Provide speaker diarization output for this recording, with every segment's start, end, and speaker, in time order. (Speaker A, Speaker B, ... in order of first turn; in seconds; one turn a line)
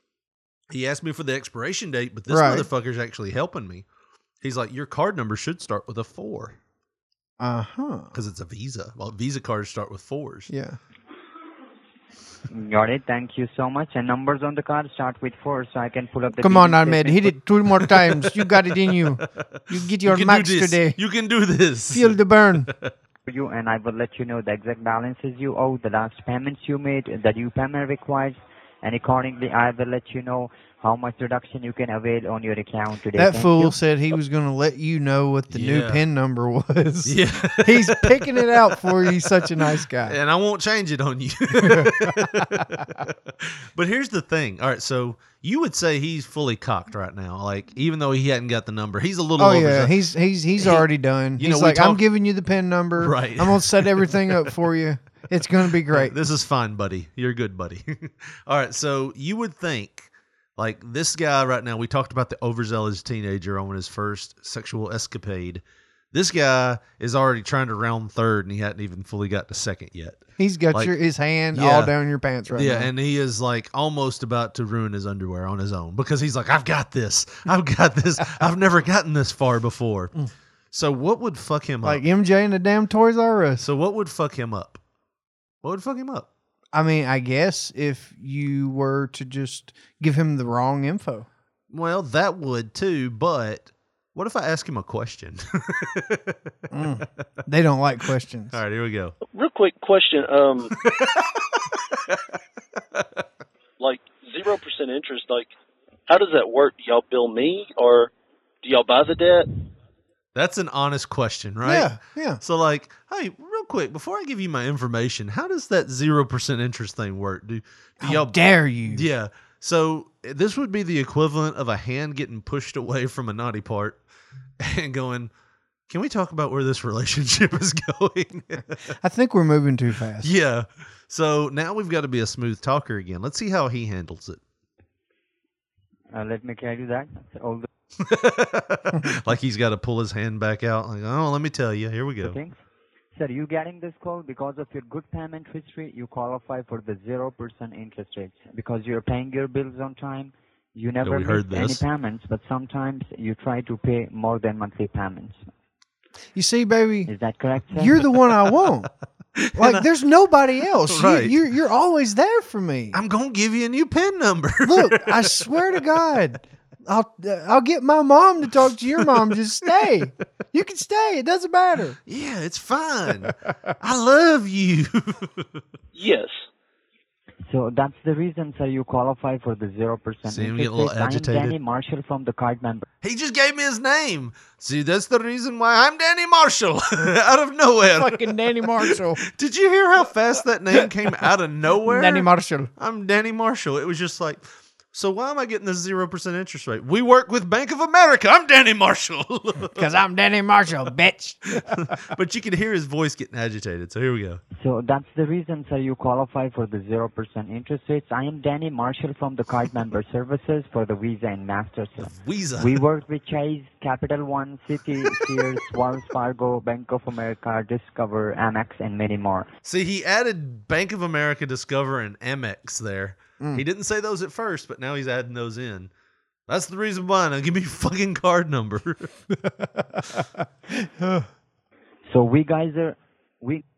Speaker A: 0.7-3.8
Speaker B: 2.3-2.7
Speaker A: 4.4-6.6
Speaker B: 7.4-8.1
Speaker A: 8.1-10.5
Speaker B: 10.5-10.8
Speaker C: 12.5-17.2
Speaker B: 16.4-21.0
Speaker A: 17.9-19.2
Speaker A: 20.0-22.9
Speaker B: 21.9-22.7
Speaker C: 23.3-33.7
Speaker B: 33.1-40.2
Speaker A: 35.5-36.0
Speaker A: 37.0-50.0
Speaker B: 41.5-42.9
Speaker B: 49.4-56.1
Speaker A: 50.6-52.0
Speaker A: 53.0-54.5
Speaker A: 55.9-70.9
Speaker B: 70.4-72.9
Speaker A: 71.5-71.9
Speaker A: 72.5-80.1
Speaker A: 80.7-82.0
Speaker B: 81.8-83.7
Speaker A: 83.6-84.8
Speaker A: 85.6-86.3
Speaker B: 86.7-91.3
Speaker A: 91.7-96.4
Speaker B: 96.7-98.6
Speaker A: 98.5-99.2
Speaker D: 99.3-100.7
Speaker A: 100.8-101.2
Speaker D: 103.8-105.5
Speaker D: 106.1-108.1
Speaker D: 108.6-109.5
Speaker A: 110.3-124.0
Speaker B: 111.6-112.4
Speaker B: 118.0-119.1
Speaker A: 124.6-125.3
Speaker A: 125.9-128.8
Speaker B: 129.0-130.3
Speaker A: 130.2-134.4
Speaker C: 136.1-137.7
Speaker A: 138.0-142.4
Speaker C: 142.2-142.6
Speaker C: 143.1-155.4
Speaker A: 151.0-151.8
Speaker B: 156.3-157.1
Speaker C: 157.1-157.9
Speaker B: 157.7-158.9
Speaker A: 159.4-159.9
Speaker B: 159.5-163.0
Speaker A: 160.7-161.4
Speaker A: 162.9-165.5
Speaker B: 164.6-172.0
Speaker A: 172.1-175.4
Speaker D: 175.9-176.4
Speaker C: 177.5-182.8
Speaker A: 180.3-181.6
Speaker A: 183.0-199.9
Speaker B: 187.9-189.2
Speaker B: 191.8-192.7
Speaker B: 199.7-201.9
Speaker A: 201.6-204.4
Speaker C: 204.6-219.5
Speaker A: 212.0-212.8
Speaker A: 219.6-225.9
Speaker A: 226.5-229.1
Speaker B: 229.4-231.3
Speaker C: 232.1-233.6